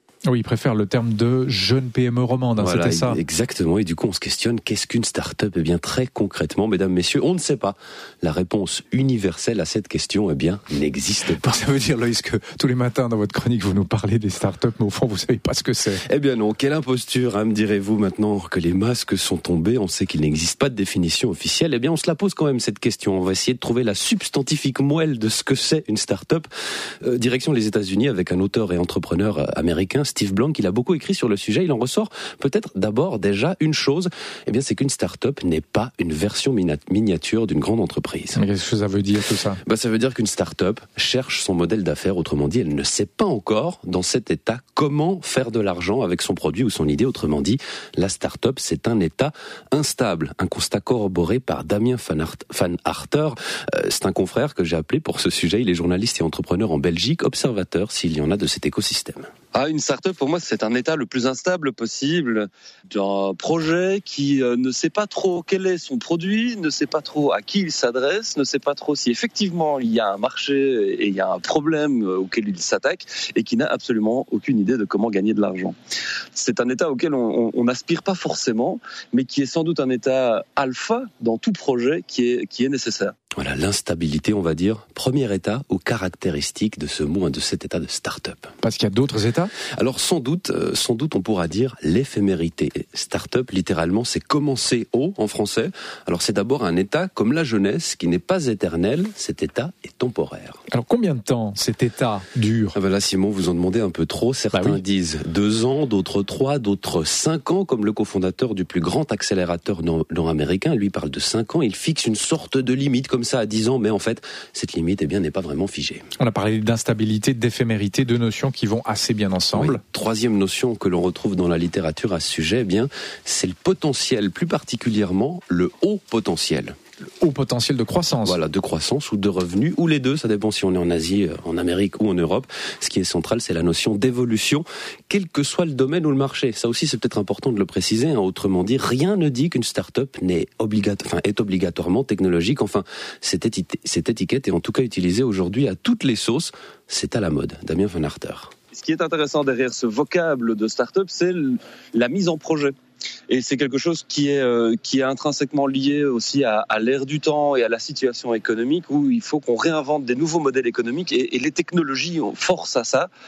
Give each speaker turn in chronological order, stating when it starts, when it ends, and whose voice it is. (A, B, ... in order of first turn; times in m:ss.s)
0:00.3-0:03.2 A
0:02.6-0:11.4 B
0:11.3-0:16.0 A
0:16.0-0:26.5 B
0:27.0-0:38.4 B
0:38.4-0:39.6 A
0:39.6-0:59.3 B
0:59.5-1:15.8 C
1:16.4-1:23.2 C
1:23.4-1:28.5 B
1:28.6-1:29.5 A
1:29.7-1:40.6 B
1:40.7-1:42.8 A
1:42.7-1:56.1 B
1:44.5-1:44.8 A
1:56.2-1:59.8 A
1:59.5-2:06.8 B
2:07.2-2:08.4 A
2:08.2-2:28.5 B
2:28.7-2:32.7 C
2:33.3-2:43.1 C